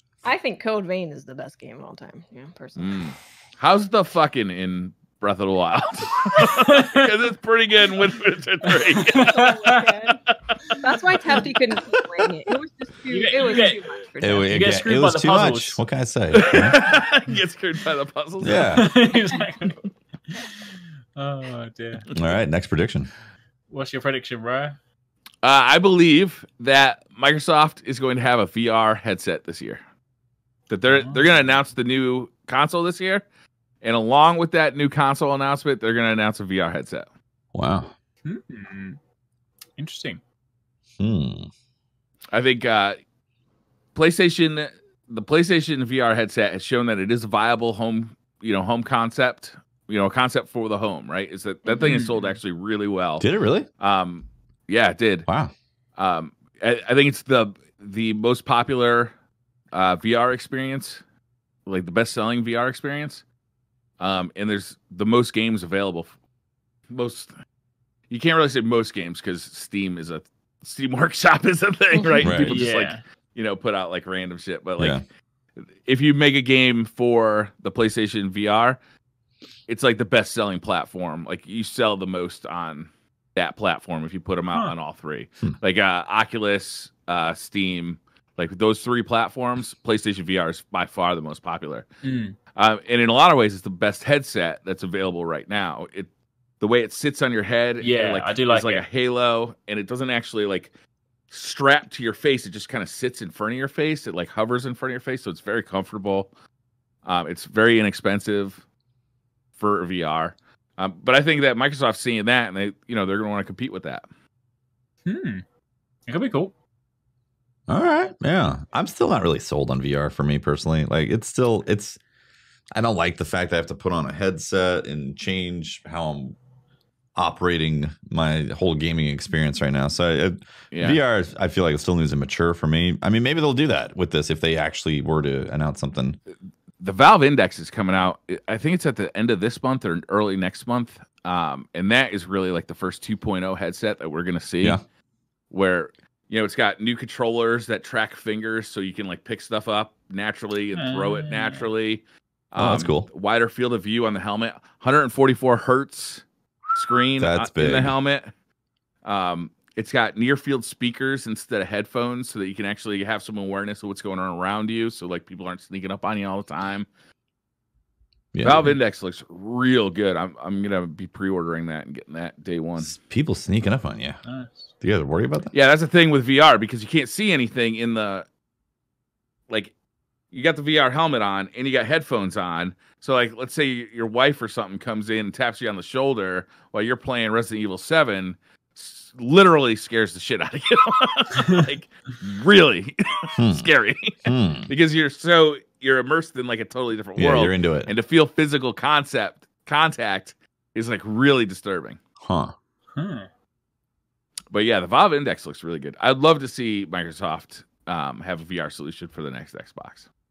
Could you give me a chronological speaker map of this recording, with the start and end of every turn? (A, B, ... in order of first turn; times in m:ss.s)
0:00.2-0:03.0 A
0:02.8-0:09.5 B
0:06.6-0:07.1 C
0:09.0-0:09.9 C
0:09.3-0:10.2 A
0:10.3-0:10.8 B
0:10.8-0:14.5 A
0:13.1-0:13.8 C
0:14.2-0:16.8 D
0:14.5-0:15.8 C
0:16.4-0:18.8 B
0:18.4-0:18.9 D
0:18.7-0:22.1 C
0:22.2-0:23.1 D
0:23.7-0:24.8 C
0:25.4-0:29.8 B
0:30.7-0:33.2 B
0:30.9-0:31.2 C
0:33.8-0:37.1 B
0:37.5-0:37.9 D
0:38.2-0:39.0 C
0:39.8-0:40.2 C
0:41.0-0:41.5 D
0:42.3-0:43.0 B
0:43.9-0:53.3 B
0:51.7-0:52.0 A
0:51.8-0:52.4 C
0:53.2-0:53.7 D
0:53.8-0:55.3 B
0:55.3-0:55.5 D
0:56.0-0:59.1 B
0:59.7-1:01.0 B
1:01.7-1:03.2 B
1:04.0-1:06.1 B
1:06.9-1:07.3 B
1:08.1-1:15.0 B
1:12.0-1:12.3 A
1:12.2-1:12.6 D
1:12.5-1:13.0 C
1:15.6-1:18.8 B
1:19.7-1:31.9 B
1:32.0-1:32.4 C
1:32.6-1:40.7 B
1:37.8-1:38.8 C
1:41.3-1:46.3 B
1:47.0-1:48.6 B
1:49.6-1:54.1 B
1:55.1-1:55.4 C
1:56.1-1:56.5 C
1:57.7-2:02.0 D
2:02.8-2:06.4 D
2:07.2-2:16.2 D
2:10.7-2:11.0 B
2:16.8-2:24.8 B
2:25.5-2:36.2 B
2:30.7-2:31.7 C
2:32.6-2:33.1 D
2:36.8-2:38.3 B
2:37.2-2:38.0 D
2:39.0-2:46.9 B
2:48.3-2:48.8 D
2:48.4-2:53.0 B
2:52.8-2:54.2 D
2:54.3-2:54.7 C
2:54.8-2:55.5 D
2:55.5-2:58.3 B
3:00.3-3:22.0 B
3:13.4-3:13.7 D
3:14.2-3:14.7 D
3:17.2-3:17.9 D
3:22.2-3:22.6 D
3:23.0-3:23.3 C
3:24.5-3:30.1 B